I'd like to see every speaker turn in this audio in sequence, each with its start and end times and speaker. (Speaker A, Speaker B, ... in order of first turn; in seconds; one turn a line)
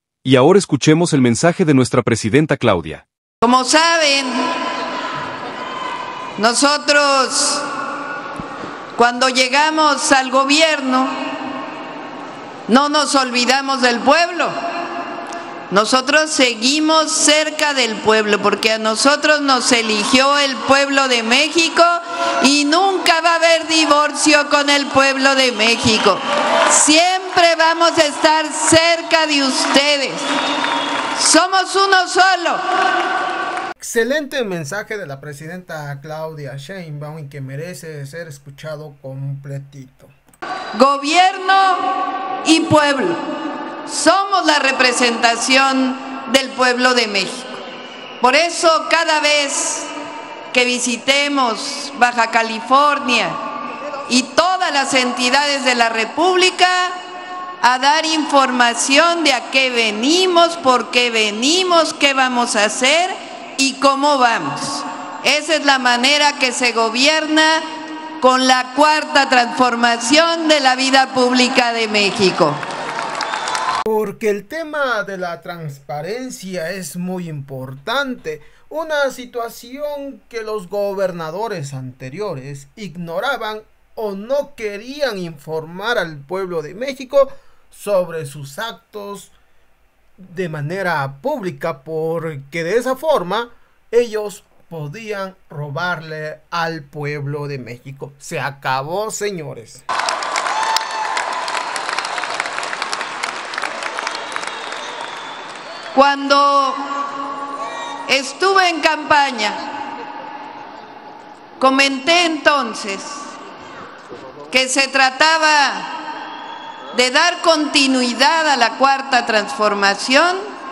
Speaker A: 0.2-3.0
Speaker B: 3.4-4.5
Speaker B: 6.4-7.7
Speaker B: 9.0-11.2
Speaker B: 12.7-14.6
Speaker B: 15.7-30.3
Speaker B: 31.2-32.6
Speaker C: 33.8-40.1
Speaker B: 40.8-43.2
Speaker B: 43.9-47.6
Speaker B: 48.2-49.9
Speaker B: 50.5-53.4
Speaker B: 54.1-57.0
Speaker B: 57.6-67.7
Speaker B: 68.2-72.6
Speaker C: 73.9-89.3
Speaker C: 90.2-99.8
Speaker B: 106.0-106.9
Speaker B: 108.1-109.6
Speaker B: 111.6-113.3
Speaker B: 114.5-115.9
Speaker B: 116.9-120.4